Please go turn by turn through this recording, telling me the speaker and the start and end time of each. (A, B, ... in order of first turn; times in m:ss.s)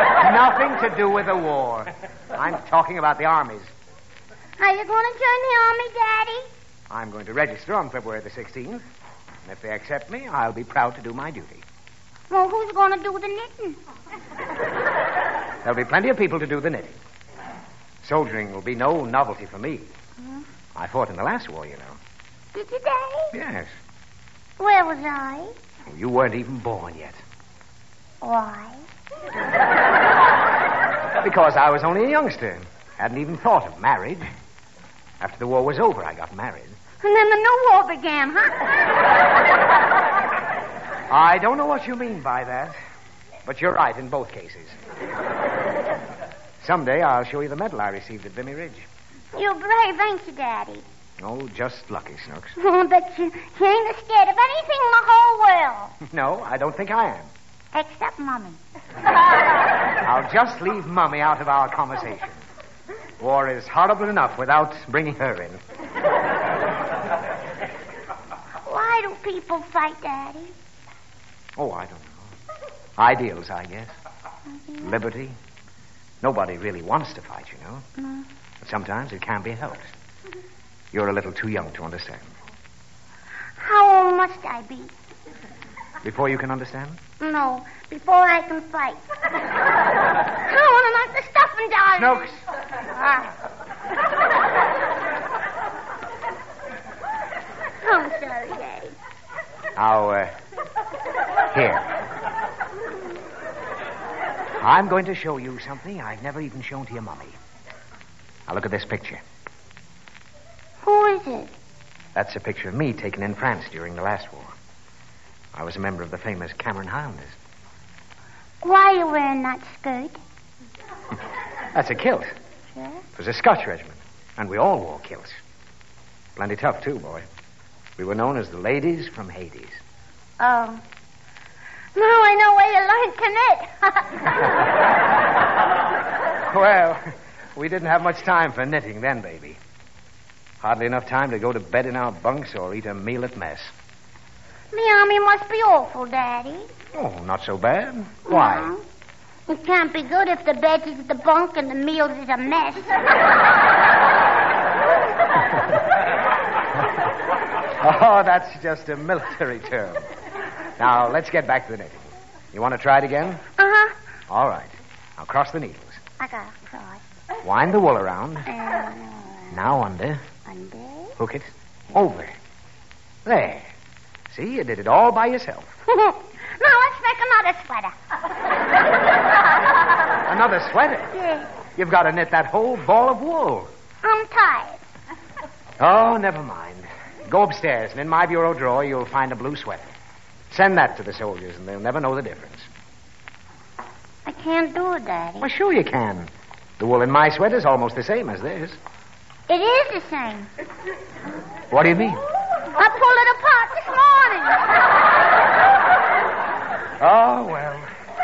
0:00.2-0:03.7 A
0:04.6-0:06.5 B
0:06.9-0:08.8 A
0:09.4-0:11.6 A
0:12.3-0:13.8 B
0:15.6-0:17.0 A
0:18.0-0:19.9 A
0:20.7-0:22.0 A
0:22.5-0:23.3 B
0:23.3-0:23.7 A
0:24.6-0:25.5 B
0:25.8-0:27.2 A
0:28.2-0:28.8 B
0:31.2-0:34.2 A
0:35.2-0:36.8 A
0:37.0-0:38.8 B
0:41.1-0:42.7 A
0:43.4-0:44.8 A
0:46.6-0:48.9 A
0:49.3-0:50.8 B
0:51.2-0:52.6 A
0:52.6-0:55.9 B
0:56.0-0:57.3 A
0:57.7-0:58.6 B
1:00.0-1:02.4 A
1:03.2-1:05.6 A
1:08.6-1:10.5 B
1:11.6-1:12.2 A
1:13.0-1:13.9 A
1:14.6-1:15.0 B
1:14.8-1:15.4 A
1:16.2-1:17.8 A
1:18.0-1:18.3 B
1:18.6-1:19.9 A
1:20.9-1:22.3 A
1:23.6-1:24.9 B
1:26.0-1:27.0 A
1:27.2-1:29.0 B
1:30.4-1:32.3 B
1:32.0-1:32.4 A
1:32.8-1:33.3 B
1:37.8-1:39.0 B
1:39.8-1:40.3 A
1:41.5-1:41.9 A
1:44.6-1:47.4 A
1:48.5-1:49.2 A
1:50.8-1:51.5 B
1:52.1-1:54.5 A
1:55.5-1:57.4 A
1:58.6-2:00.2 B
2:01.7-2:02.3 A
2:02.7-2:03.0 B
2:03.2-2:05.4 A
2:06.4-2:07.2 A
2:08.0-2:09.8 A
2:10.4-2:10.8 B
2:11.9-2:14.6 B
2:16.5-2:17.0 A
2:17.6-2:19.6 A
2:20.6-2:23.7 A
2:24.7-2:26.7 B
2:26.9-2:28.7 A
2:28.3-2:28.8 B
2:29.5-2:32.9 B
2:37.8-2:40.1 A
2:40.8-2:43.4 A
2:43.6-2:43.9 B
2:44.3-2:46.0 A
2:46.2-2:47.0 B
2:47.4-2:48.5 A
2:48.5-2:49.5 B
2:49.5-2:50.2 A
2:50.5-2:51.1 B
2:51.2-2:52.3 A
2:53.2-2:53.7 A
2:54.3-2:55.7 A
2:55.9-2:57.9 B
3:00.2-3:01.1 A
3:01.1-3:01.5 B
3:01.8-3:03.7 A
3:04.0-3:04.8 B
3:05.8-3:09.9 A
3:10.5-3:12.7 A
3:14.2-3:15.5 B
3:15.4-3:18.8 A
3:19.5-3:20.5 B
3:21.7-3:22.2 A
3:22.7-3:24.8 B
3:27.0-3:27.9 A